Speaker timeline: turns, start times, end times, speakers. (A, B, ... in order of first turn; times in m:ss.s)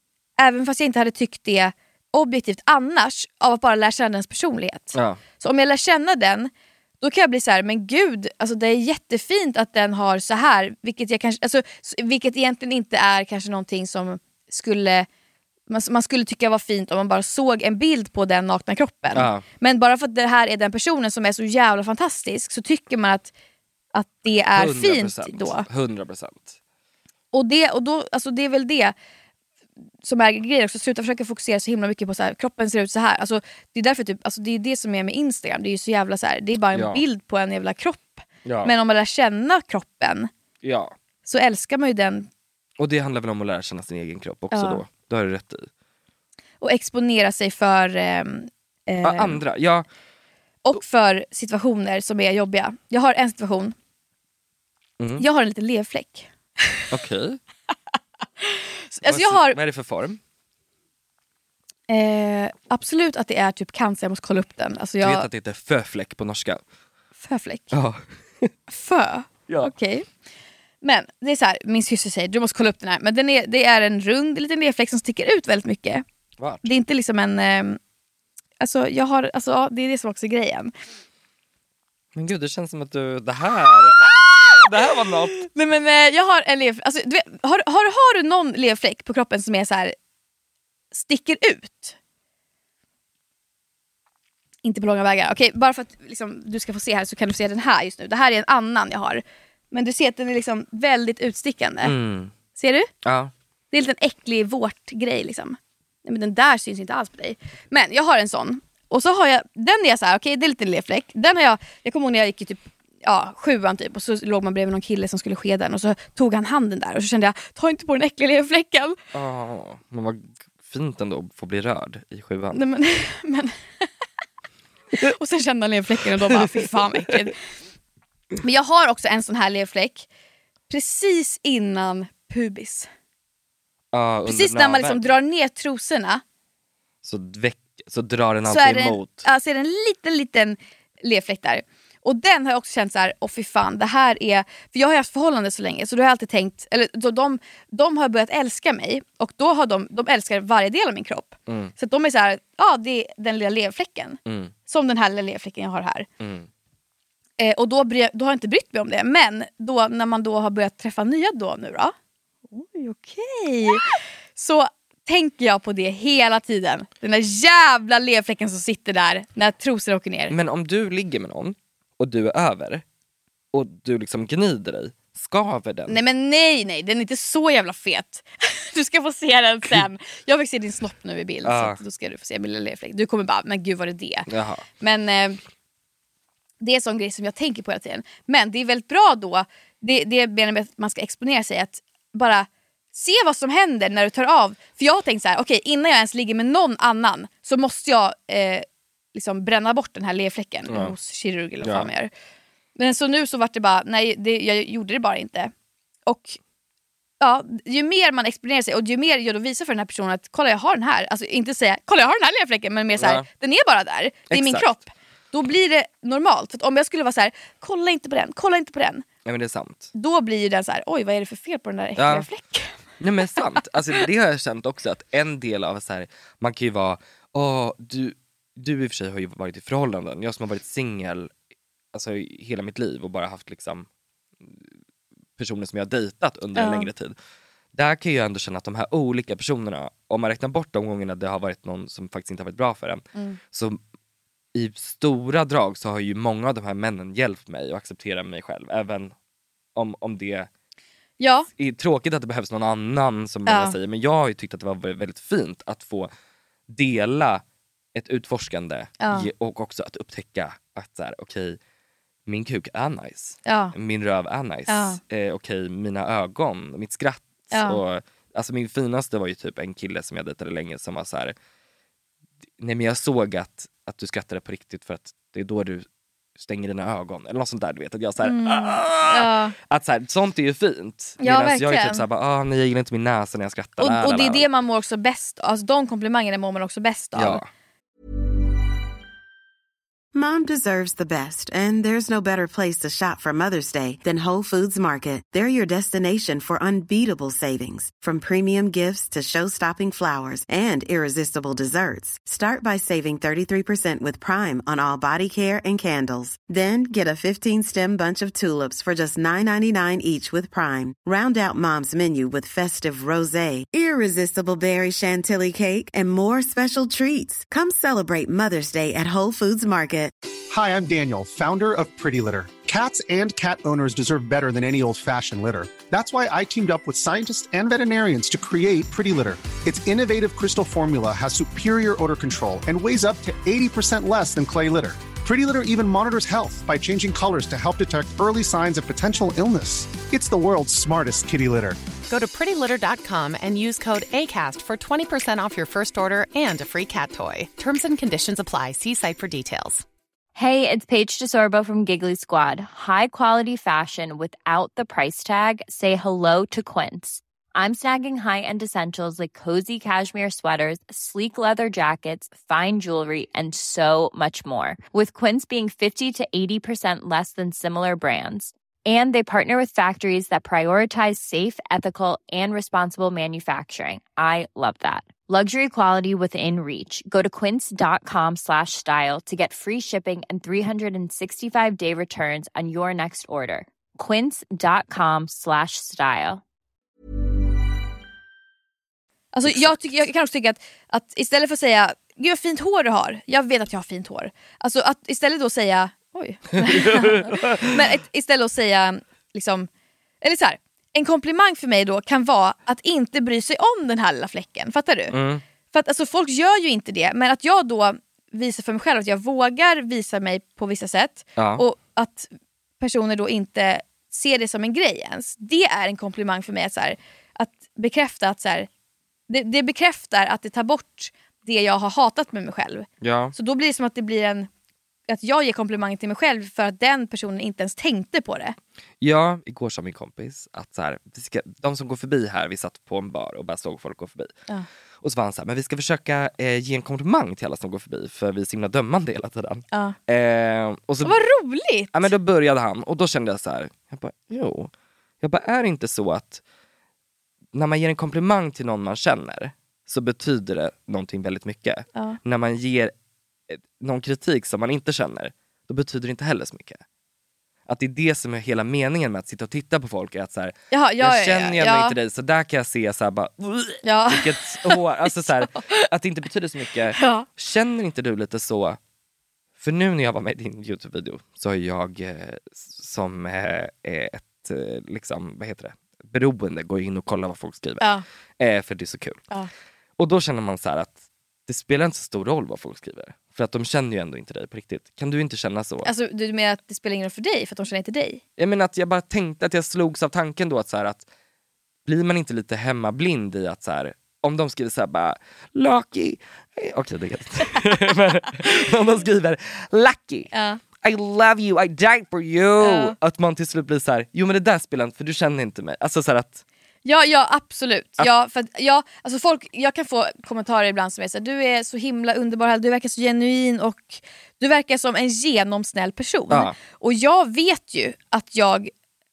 0:00.4-0:15.1 A
0:04.9-0:05.2 B
0:15.7-0:23.3 A
0:19.1-0:19.4 B
0:23.9-0:25.7 A
0:24.6-0:26.6 B
0:27.3-0:28.9 A
0:30.0-0:40.3 A
0:36.7-0:37.0 B
0:38.4-0:38.7 B
0:40.6-0:40.9 B
0:41.2-0:42.3 A
0:42.8-0:45.7 B
0:44.5-0:44.8 A
0:46.6-0:49.4 A
0:49.0-0:49.9 B
0:50.6-0:53.8 A
0:55.0-0:55.2 B
0:55.2-0:56.9 A
0:56.9-0:57.4 B
0:58.4-0:59.6 A
0:59.0-1:00.2 B
1:01.9-1:05.3 A
1:05.0-1:06.6 B
1:07.2-1:07.7 A
1:07.7-1:08.5 B
1:08.7-1:10.1 A
1:10.8-1:16.0 A
1:16.4-1:16.7 B
1:16.6-1:17.8 A
1:18.6-1:20.7 A
1:22.2-1:25.4 B
1:25.4-1:30.0 A
1:30.9-1:32.0 A
1:34.6-1:41.9 A
1:41.8-1:42.3 B
1:42.6-1:42.9 A
1:43.0-1:43.3 B
1:43.7-1:59.0 A
1:59.1-2:02.6 B
2:02.5-2:03.6 A
2:05.0-2:07.3 A
2:06.2-2:07.3 B
2:08.4-2:10.1 A
2:10.7-2:12.9 A
2:13.9-2:15.1 B
2:14.3-2:16.2 A
2:17.0-2:19.2 B
2:18.5-2:36.1 A
2:31.5-2:31.7 B
2:34.3-2:34.5 B
2:36.2-2:36.5 B
2:37.4-2:41.9 A
2:42.5-2:43.8 A
2:44.4-2:50.3 A
2:50.3-2:52.8 B
2:53.5-2:56.0 B
2:55.9-3:04.3 A
3:01.4-3:01.8 B
3:04.3-3:04.6 B
3:04.8-3:05.4 A
3:06.6-3:22.1 A
3:20.7-3:20.9 B
3:21.6-3:21.9 B
3:22.8-3:25.5 A
3:26.1-3:26.4 A
3:27.2-3:39.1 A
3:33.0-3:33.2 B
3:34.3-3:34.7 B
3:39.2-3:39.9 B
3:39.9-3:42.7 A
3:42.0-3:42.3 B
3:43.0-3:51.3 B
3:51.9-3:53.9 B
3:55.4-3:57.1 B
3:56.6-3:56.9 A
3:57.8-4:03.8 B
4:03.1-4:03.4 A
4:04.6-4:09.1 B
4:09.8-4:10.5 B
4:11.2-4:11.5 A
4:11.6-4:16.1 B
4:13.5-4:13.8 A
4:16.7-4:17.4 B
4:18.0-4:21.6 B
4:19.0-4:19.3 A
4:22.3-4:31.4 B
4:23.4-4:23.7 A
4:24.7-4:25.0 A
4:27.5-4:27.8 A
4:32.6-4:35.8 B
4:36.4-4:44.5 B
4:38.2-4:39.5 A
4:41.2-4:42.0 A
4:43.8-4:47.4 A
4:47.2-4:47.5 B
4:50.1-5:20.1 C
5:20.5-5:41.8 D
5:42.1-5:49.8 E
5:50.4-6:26.4 F
6:29.3-6:39.7 A
6:29.5-6:29.8 B
6:36.6-6:37.7 B
6:40.2-6:45.2 A
6:45.1-6:45.4 B
6:45.7-6:52.3 A
6:51.4-6:51.6 B
6:52.8-6:58.7 A
6:59.3-7:04.5 A
7:03.0-7:03.4 B
7:05.1-7:08.6 A
7:09.0-7:14.3 B
7:15.0-7:21.2 B
7:21.0-7:22.1 A
7:21.9-7:24.7 B
7:25.2-7:26.4 B
7:27.5-7:32.9 B
7:33.5-7:36.8 B
7:37.7-7:48.8 B
7:40.7-7:42.0 A
7:43.8-7:45.7 A
7:47.0-7:47.3 A
7:49.6-7:57.9 B
7:58.4-7:59.2 B
8:00.0-8:05.9 B
8:05.8-8:08.2 A
8:08.4-8:11.1 B
8:11.9-8:20.3 B
8:20.3-8:20.6 A
8:20.8-8:26.4 B
8:22.6-8:23.0 A
8:26.8-8:38.7 A
8:36.3-8:36.6 B